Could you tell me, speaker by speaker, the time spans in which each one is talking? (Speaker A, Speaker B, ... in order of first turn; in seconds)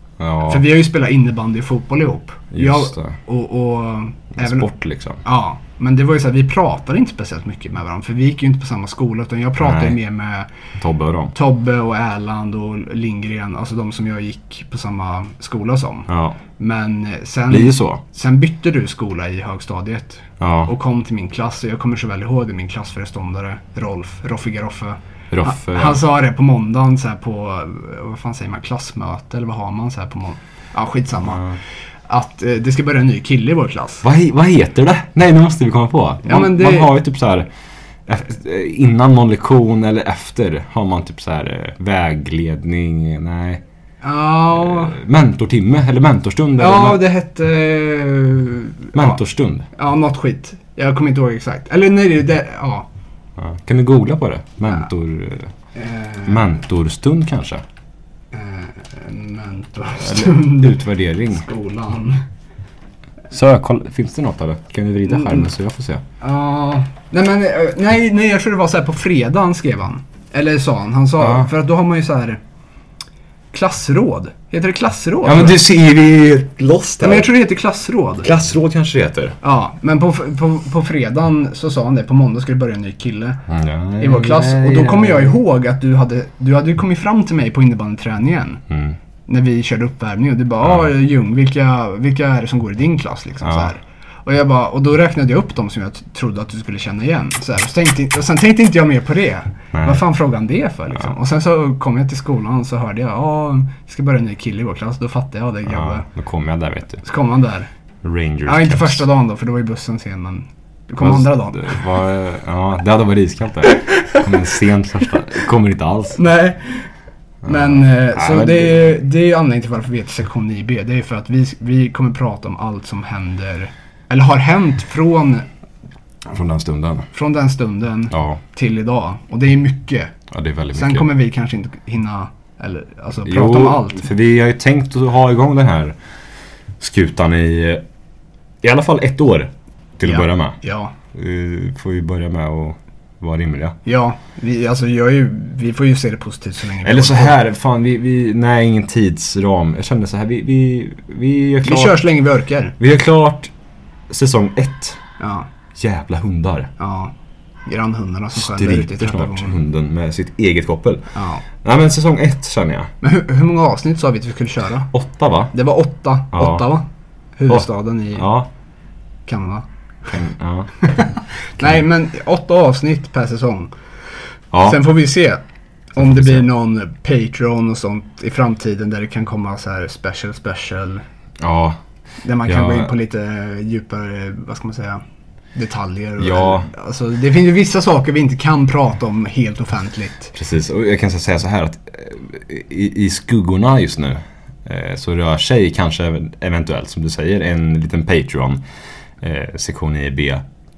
Speaker A: 0.2-0.7, 2.5-3.1, 4.4-5.2, 9.6-10.0, 10.8-11.3, 16.1-16.4, 17.5-18.0, 20.4-20.7, 25.3-26.0, 31.2-31.6, 34.0-37.5, 38.1-43.6, 44.5-47.0, 48.9-49.7, 53.4-55.5, 56.2-57.6, 60.0-61.4, 63.3-66.0, 71.2-71.5, 75.2-77.4, 78.2-79.4, 83.5-85.4, 88.7-89.0, 90.6-90.9, 93.4-93.7, 99.7-100.0, 105.7-107.0, 108.0-109.0, 111.0-116.2, 117.4-118.9, 126.2-127.1, 128.1-128.4, 130.3-131.1, 133.2-135.9, 136.8-137.8, 138.6-140.6, 141.1-143.8, 146.8-152.0, 152.8-153.5, 154.1-155.0, 155.7-156.7, 158.3-162.9, 164.9-165.5, 166.3-166.7, 167.5-168.5, 170.1-170.7, 174.5-174.8, 176.0-176.5, 181.4-181.8, 182.4-182.9, 186.2-186.7, 190.3-198.6, 199.2-200.4
Speaker B: 0.4-4.7, 5.2-10.5, 11.3-31.5, 32.1-34.0, 36.2-36.9, 44.0-45.0, 46.6-49.2, 49.7-52.9, 55.8-56.5, 58.3-62.2, 65.1-65.5, 66.2-72.4, 73.5-75.6, 77.0-78.3, 79.4-83.4, 84.0-88.6, 89.3-106.1, 107.0-107.7, 108.5-111.8, 116.2-116.9, 117.4-125.5, 127.1-130.1, 130.7-134.1, 140.1-140.9, 143.9-147.4, 151.6-152.8, 155.2-155.5, 156.8-157.1, 157.7-159.6, 161.1-161.4, 163.0-164.9, 165.5-166.9, 167.4-168.3, 169.3-169.7, 170.8-173.7, 174.6-175.4, 175.9-181.0, 182.2-185.0, 185.6-190.3